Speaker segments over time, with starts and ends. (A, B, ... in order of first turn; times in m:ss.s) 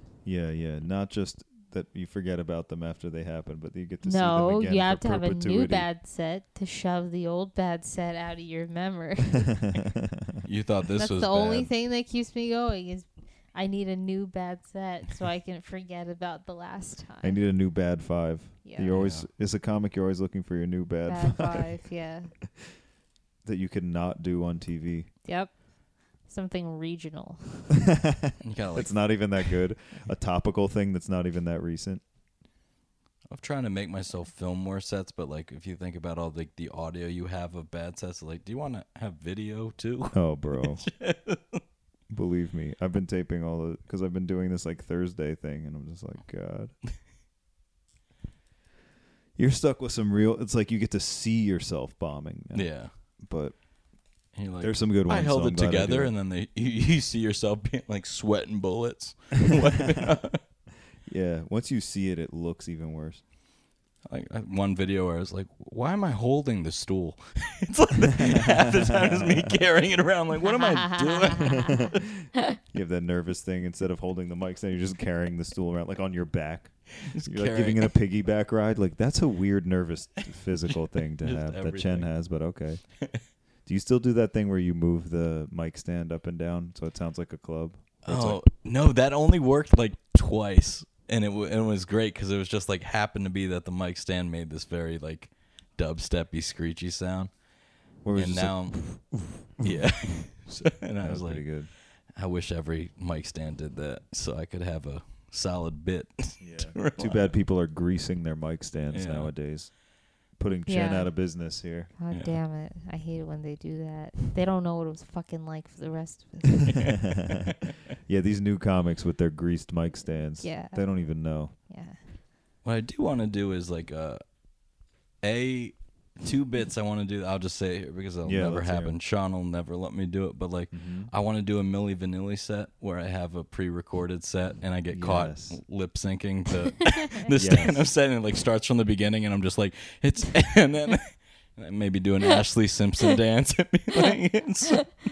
0:00.2-0:05.9 A
0:04.0-0:09.5 B
0:09.6-0:10.4 A
0:10.4-0:11.7 C
0:11.0-0:17.4 B
0:17.2-0:21.8 A
0:18.6-0:18.9 B
0:18.9-0:19.3 C
0:21.1-0:22.3 B
0:23.4-0:25.1 A
0:25.2-0:27.8 B
0:27.9-0:32.0 A
0:28.4-0:29.5 C
0:33.3-0:41.6 C
0:40.1-0:40.9 A
0:42.1-0:46.7 A
0:49.4-0:53.6 A
0:52.5-0:52.9 C
0:54.3-1:00.4 C
0:54.6-0:56.1 A
1:01.1-1:03.2 A
1:04.1-1:12.0 C
1:09.0-1:09.5 A
1:10.4-1:11.7 B
1:12.7-1:22.8 A
1:17.0-1:18.0 C
1:21.2-1:22.1 C
1:23.7-1:28.4 A
1:28.0-1:37.3 C
1:38.0-1:41.7 A
1:38.1-1:47.3 C
1:46.4-1:51.9 A
1:48.9-1:49.3 C
1:50.7-1:51.3 B
1:52.0-1:56.8 B
1:52.1-1:52.4 C
1:56.7-1:57.0 C
1:58.1-2:01.5 A
2:00.4-2:00.9 B
2:01.7-2:02.0 B
2:02.6-2:04.2 C
2:05.2-2:24.8 C
2:08.2-2:09.0 A
2:10.7-2:11.1 A
2:14.9-2:15.6 A
2:17.4-2:17.9 A